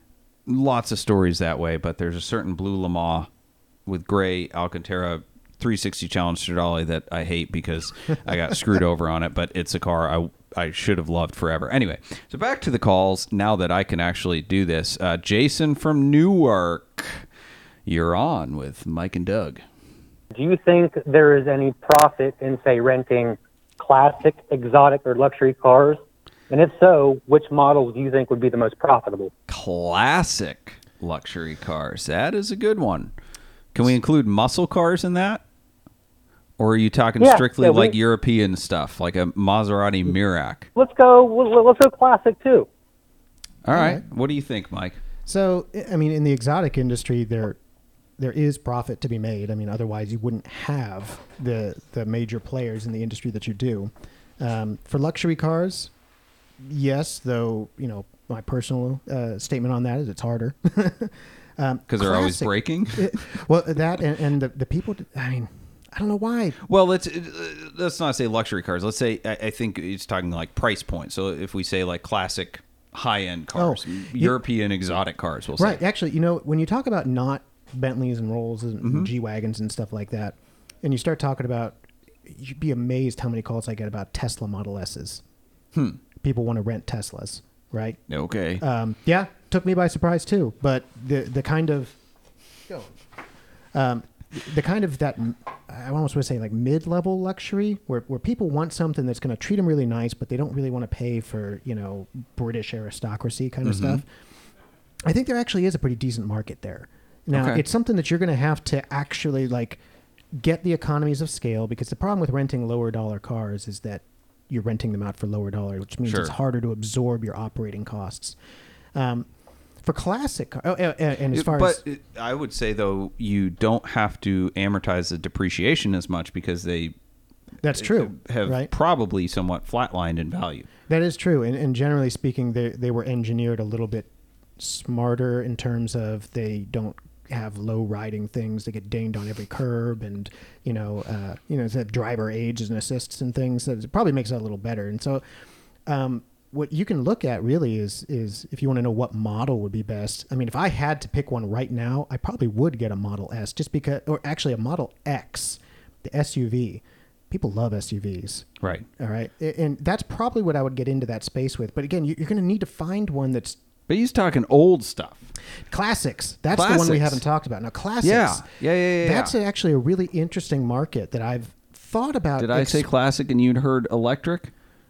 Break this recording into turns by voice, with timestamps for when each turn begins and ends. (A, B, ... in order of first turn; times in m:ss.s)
0:00.4-0:03.3 A
0:03.8-0:17.2 A
0:17.8-0:19.6 A
0:20.3-0:29.3 B
0:29.5-0:33.1 A
0:33.7-0:35.4 A
0:36.6-0:40.7 A
0:37.2-0:38.0 B
0:40.8-0:42.7 B
0:43.6-0:45.0 A
0:43.7-0:44.0 C
0:45.2-0:47.6 C
0:48.2-0:55.9 C
0:56.6-1:06.6 C
1:01.9-1:03.4 A
1:06.6-1:15.8 A
1:13.5-1:14.4 C
1:15.6-1:25.2 C
1:18.8-1:19.1 A
1:25.7-1:26.0 A
1:26.2-1:28.0 C
1:28.1-1:28.6 A
1:28.6-1:31.9 C
1:33.7-1:44.1 C
1:43.6-1:44.0 A
1:45.0-1:49.8 C
1:47.3-1:47.6 A
1:50.3-1:58.4 C
1:56.0-1:56.3 A
1:58.9-1:59.3 C
1:59.8-2:01.8 C
2:01.3-2:06.9 A
2:07.6-2:08.7 C
2:07.8-2:10.7 A
2:10.9-2:14.1 C
2:14.6-2:25.2 C
2:25.9-2:43.6 C
2:38.6-2:38.8 A
2:43.9-2:45.3 A
2:45.7-2:48.5 C
2:46.5-2:47.2 A
2:48.0-2:49.3 A
2:49.0-2:52.9 C
2:52.4-2:54.5 A